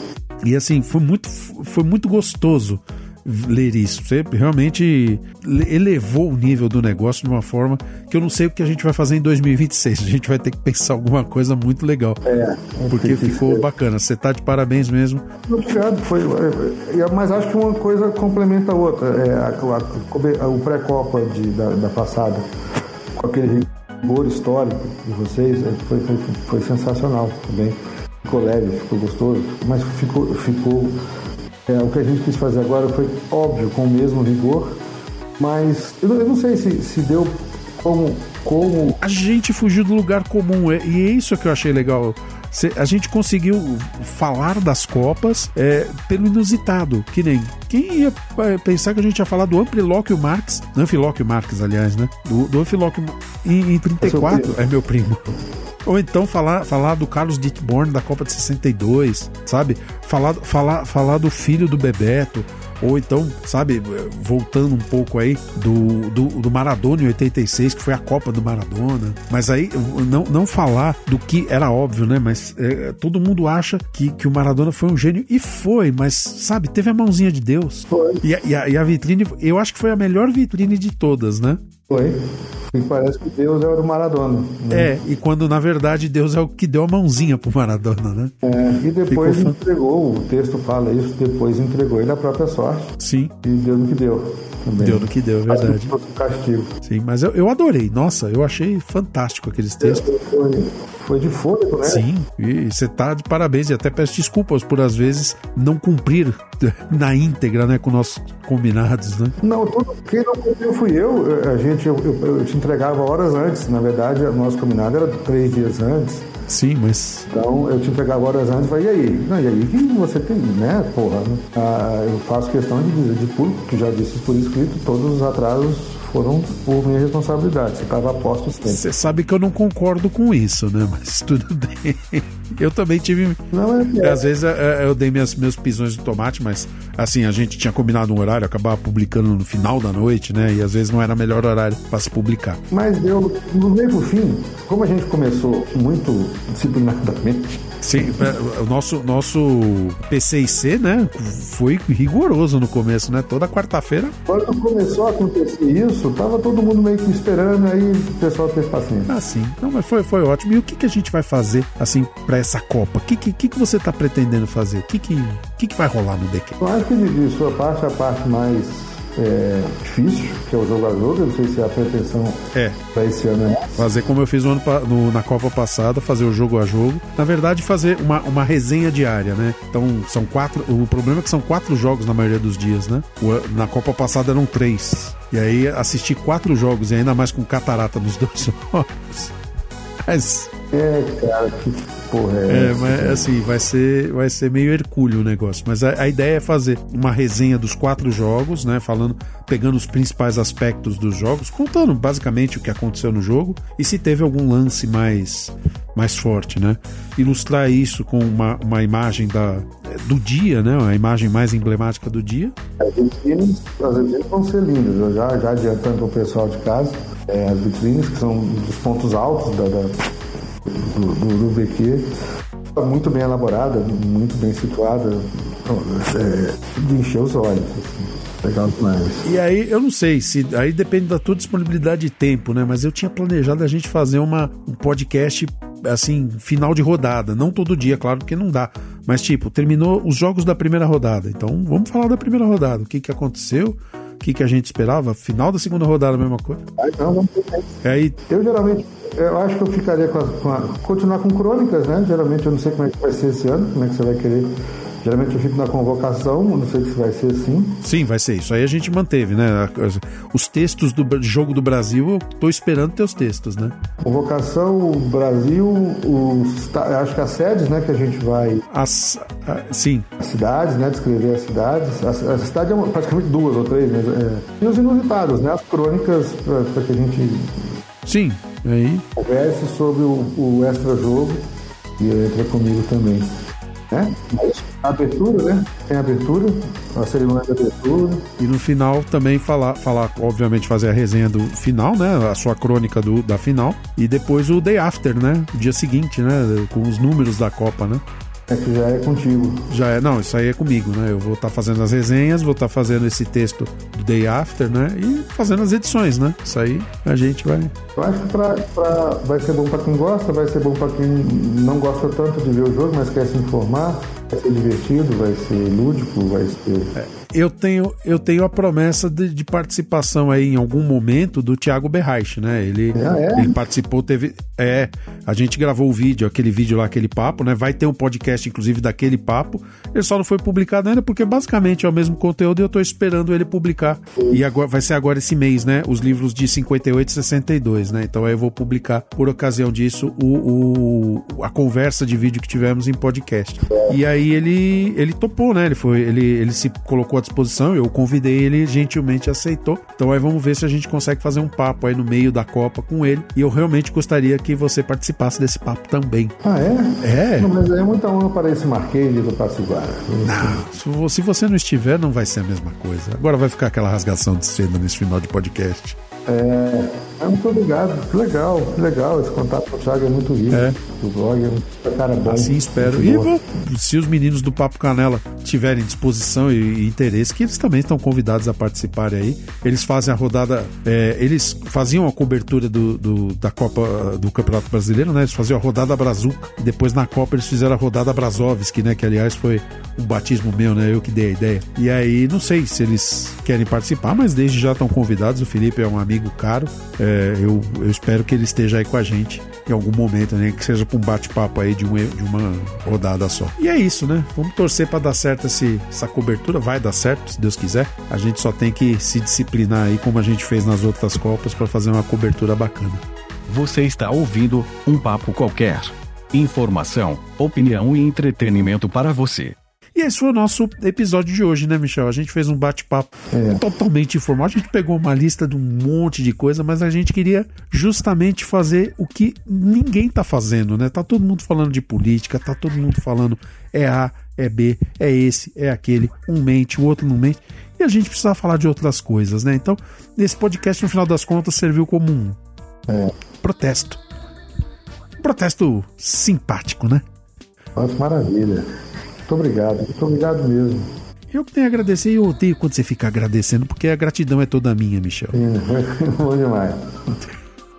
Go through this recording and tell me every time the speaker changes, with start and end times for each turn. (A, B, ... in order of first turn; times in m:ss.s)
0:00.4-0:12.2 A
0:12.2-0:13.6 B
0:12.9-0:15.2 A
0:15.5-0:22.4 B
0:23.1-0:31.0 B
0:31.6-0:34.8 B
0:35.4-0:39.0 B
0:39.0-0:55.3 A
0:54.0-0:54.6 B
0:55.8-1:21.6 A
1:17.9-1:18.2 B
1:21.9-1:24.9 B
1:24.7-1:28.3 A
1:28.4-1:36.7 B
1:29.1-1:29.6 A
1:33.0-1:33.3 A
1:34.8-1:35.9 A
1:36.8-1:40.1 A
1:39.8-1:42.0 B
1:41.8-1:49.4 A
1:49.4-1:56.3 B
1:56.5-1:57.3 A
1:57.3-2:08.8 B
2:08.6-2:13.4 A
2:13.5-2:14.2 B
2:14.0-2:22.6 A
2:22.7-2:28.1 B
2:27.8-2:34.1 A
2:34.3-2:39.1 B
2:39.1-2:46.6 A
2:46.6-2:53.9 B
2:53.8-3:09.3 A
3:10.0-3:10.5 A
3:10.7-3:13.3 B
3:12.5-3:32.5 A
3:32.8-3:40.0 B
3:40.6-3:42.1 B
3:42.7-3:49.3 B
3:49.2-4:06.6 A
4:06.8-4:07.7 B
4:07.8-4:08.2 A
4:08.3-4:17.8 B
4:17.8-4:23.7 A
4:24.0-4:28.6 B
4:28.7-4:30.1 A
4:30.2-4:37.7 B
4:38.0-4:39.0 A
4:39.2-4:41.5 B
4:42.0-4:43.3 B
4:43.9-4:48.2 B
4:48.4-4:58.0 A
4:58.5-4:59.7 B
4:59.7-5:07.7 A
5:08.0-5:16.9 B
5:16.9-5:56.4 A
5:22.9-5:23.6 B
5:56.4-6:00.6 B
5:57.0-5:57.5 A
6:00.2-6:06.0 A
6:06.3-6:13.3 B
6:10.5-6:10.8 A
6:12.3-6:53.0 A
6:53.5-6:59.5 C
7:00.0-7:22.4 A
7:03.3-7:03.6 B
7:23.4-7:24.0 A
7:25.2-7:27.0 A
7:27.8-7:28.7 B
7:29.3-7:30.9 B
7:31.3-7:35.4 A
7:35.3-7:37.2 B